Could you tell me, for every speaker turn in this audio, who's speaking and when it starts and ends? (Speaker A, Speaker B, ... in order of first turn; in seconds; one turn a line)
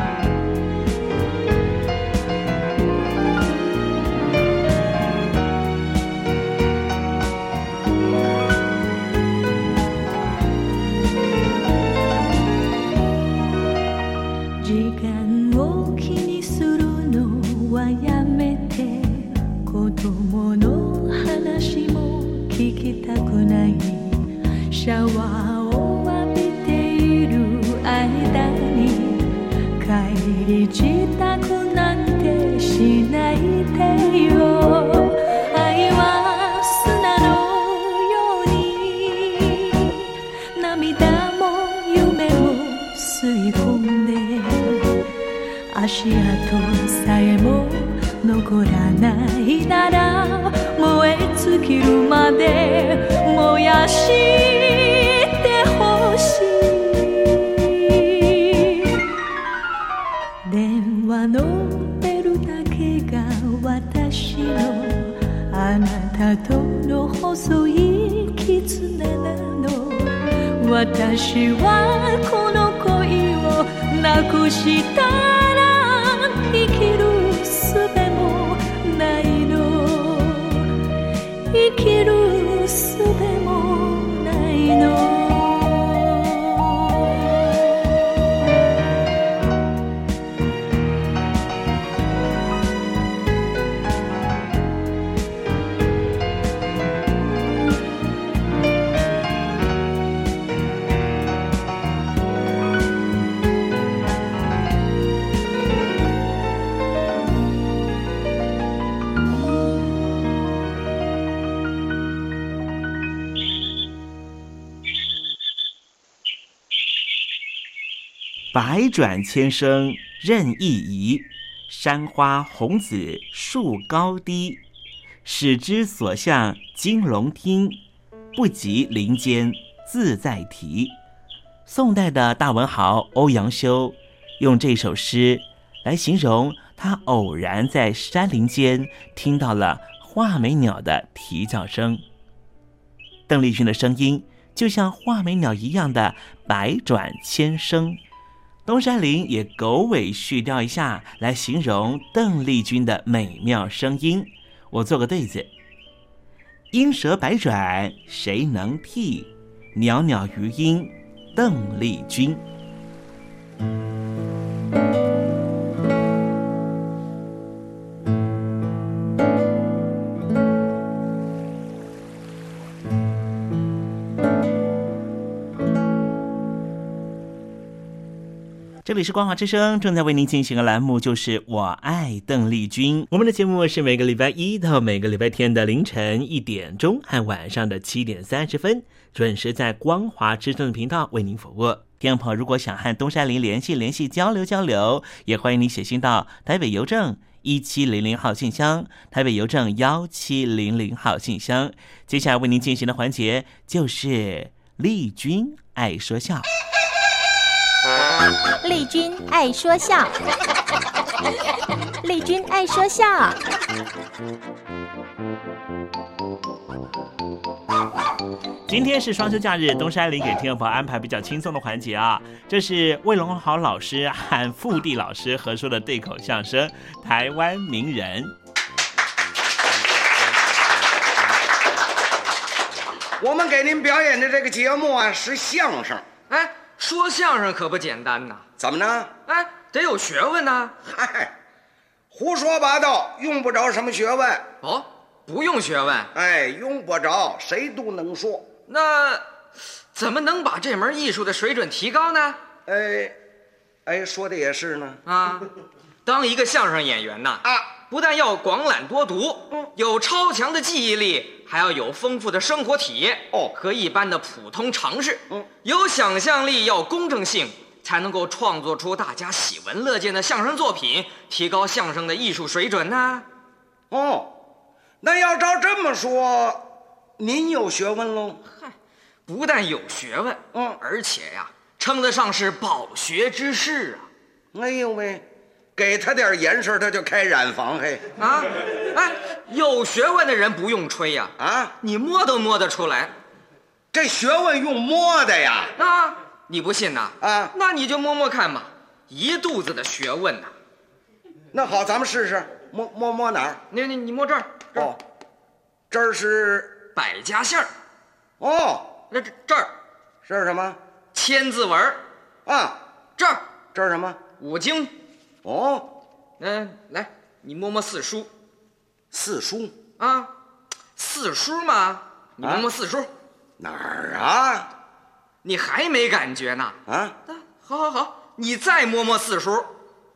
Speaker A: 14.6-40.0
Speaker A: 40.5-45.0
Speaker A: 45.7-59.0
Speaker A: 60.4-80.7
Speaker A: 81.5-87.2
Speaker B: 118.5-124.6
Speaker B: 125.2-127.8
Speaker B: 128.3-130.9
Speaker B: 131.7-142.0
Speaker B: 143.3-148.0
Speaker B: 148.7-155.5
Speaker B: 156.7-162.4
Speaker B: 178.8-206.4
Speaker C: 208.6-210.1
Speaker C: 212.0-213.4
Speaker B: 218.7-228.3
Speaker D: 233.2-236.1
Speaker E: 236.3-238.4
Speaker D: 238.6-239.1
Speaker E: 239.3-240.7
Speaker D: 240.8-241.3
Speaker D: 242.1-244.5
Speaker E: 244.6-246.1
Speaker D: 246.1-248.5
Speaker E: 248.7-249.2
Speaker E: 249.9-252.4
Speaker D: 252.7-253.2
Speaker D: 253.8-255.0
Speaker E: 255.1-255.5
Speaker E: 256.1-273.2
Speaker D: 257.4-257.7
Speaker D: 273.9-274.3
Speaker D: 275.0-276.7
Speaker D: 277.2-278.4
Speaker E: 279.3-284.1
Speaker D: 280.5-280.8
Speaker D: 284.5-285.2
Speaker D: 285.8-288.0
Speaker E: 288.2-293.1
Speaker D: 291.4-291.7
Speaker D: 293.9-295.7
Speaker E: 295.8-300.5
Speaker D: 297.2-297.5
Speaker D: 301.5-303.6
Speaker E: 303.7-304.9
Speaker D: 305.9-306.8
Speaker E: 306.9-307.7
Speaker D: 308.4-308.9
Speaker E: 309.1-309.7
Speaker D: 310.2-310.8
Speaker E: 311.1-312.0
Speaker D: 312.4-312.8
Speaker E: 313.2-313.4
Speaker D: 313.7-314.2
Speaker E: 314.4-314.9
Speaker D: 315.4-315.9
Speaker E: 316.4-318.3
Speaker D: 319.1-319.8
Speaker E: 320.0-320.3
Speaker E: 321.0-323.1
Speaker D: 322.4-322.7
Speaker D: 323.6-324.7
Speaker E: 325.4-326.8
Speaker D: 326.9-327.1
Speaker E: 327.3-329.7